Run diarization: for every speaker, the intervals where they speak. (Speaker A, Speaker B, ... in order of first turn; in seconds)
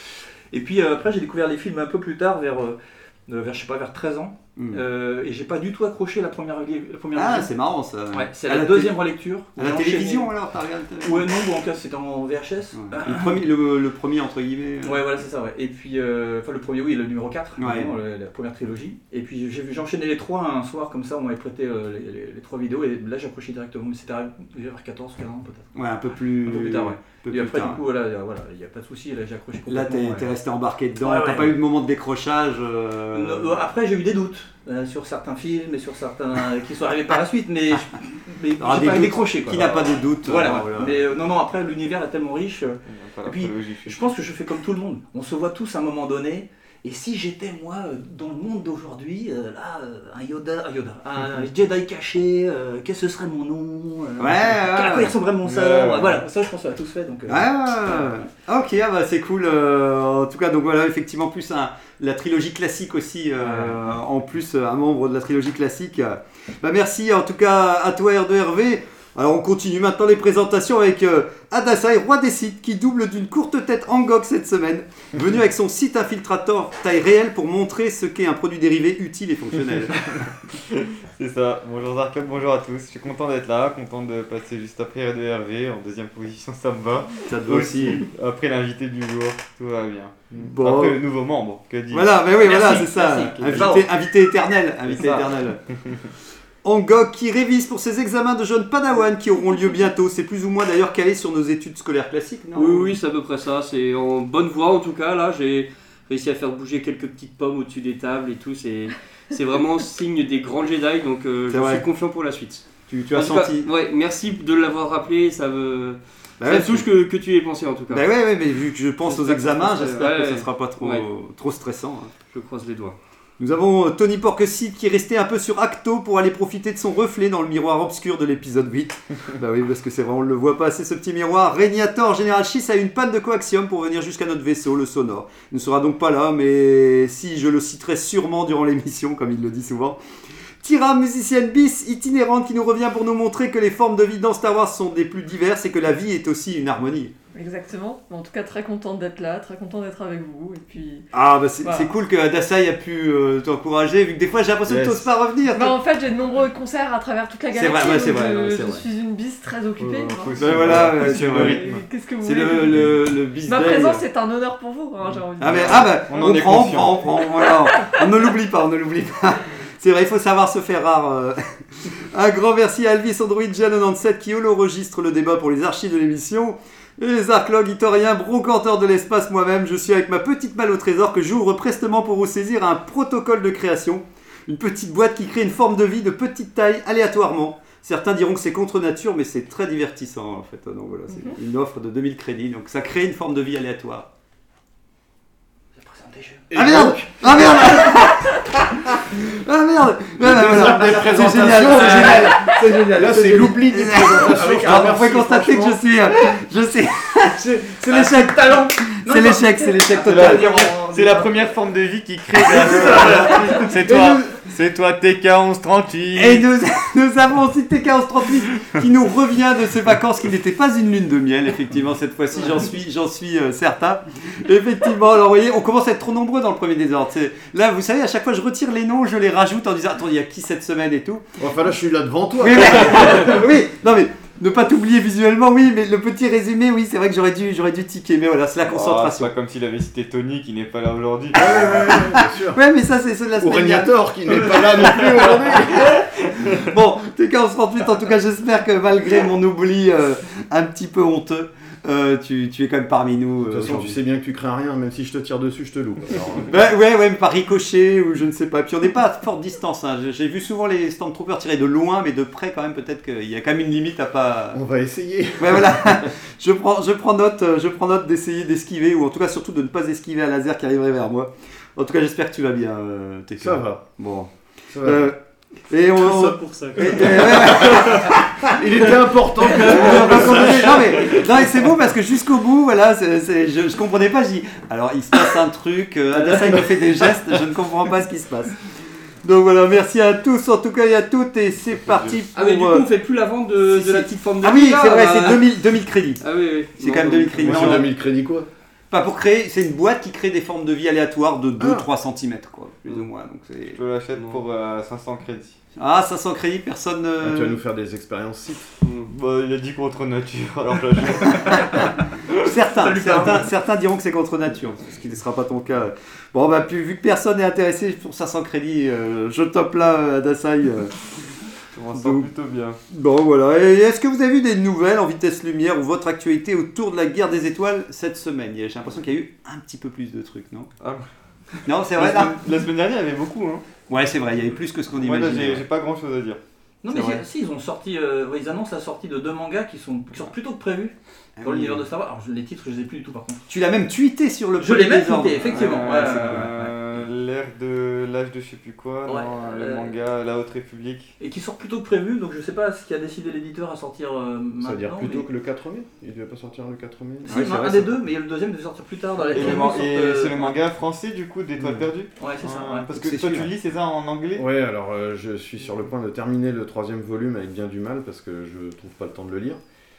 Speaker A: 0.5-7.5, 8.1-10.3, 11.0-13.4, 14.8-25.7, 26.4-30.3, 31.0-31.6, 33.1-58.2, 63.4-63.9, 92.4-93.9, 195.8-198.1, 200.7-202.9, 204.1-206.3, 207.9-211.3, 212.4-213.7, 311.2-311.7, 312.8-313.5, 336.8-343.5, 344.6-346.7, 349.1-349.9, 351.2-355.3, 357.2-360.6, 362.2-362.9
Speaker B: 4.6-4.8, 7.1-9.0, 9.6-11.3, 12.7-15.0, 17.6-17.9, 25.7-27.8, 29.7-33.5, 38.6-41.0, 54.2-55.1, 57.3-80.2, 87.2-88.1, 90.3-91.0, 91.9-95.6, 96.6-102.9, 111.5-111.8, 112.9-113.7, 116.4-116.9, 117.9-122.1, 123.4-140.0, 140.6-147.1, 151.1-155.8, 157.5-158.8, 160.4-161.6, 162.2-164.1, 165.4-194.1, 196.5-210.6, 212.5-214.4, 216.1-231.2, 232.4-239.3, 241.4-254.0, 256.4-264.6, 265.4-275.2, 275.7-278.9, 279.5-288.6, 289.2-292.9, 293.6-296.2, 296.8-297.9, 298.9-303.8, 305.8-307.6, 312.3-321.1, 321.9-322.3, 322.9-330.7, 331.6-332.3, 333.9-335.6, 341.4-341.8, 343.5-346.5, 357.3-357.9, 362.9-363.5
Speaker C: 42.9-44.0, 55.4-56.2, 81.2-92.2, 93.1-93.8, 94.9-95.3, 119.3-120.0, 154.7-155.1, 159.8-161.8, 165.5-167.0, 210.0-216.5, 238.7-242.1, 291.8-292.2, 303.7-305.6, 309.1-311.6, 321.7-322.8, 330.8-331.1, 331.9-333.6, 334.9-336.4, 336.9-337.2, 345.5-351.1, 359.3-364.5
Speaker D: 102.5-118.0, 119.1-121.0, 122.3-123.0, 276.0-277.9, 286.1-286.6, 292.3-295.5, 296.2-297.8, 308.8-309.1
Speaker E: 147.3-151.1, 151.6-151.9, 155.5-166.1, 167.5-168.0
Speaker F: 200.2-205.7, 231.4-233.4, 241.3-242.6, 243.3-246.1, 253.5-256.5, 264.5-266.1, 273.4-273.8, 274.7-275.1, 277.9-281.2, 297.4-298.5, 301.6-301.9, 307.2-308.7, 354.6-357.9, 364.3-369.6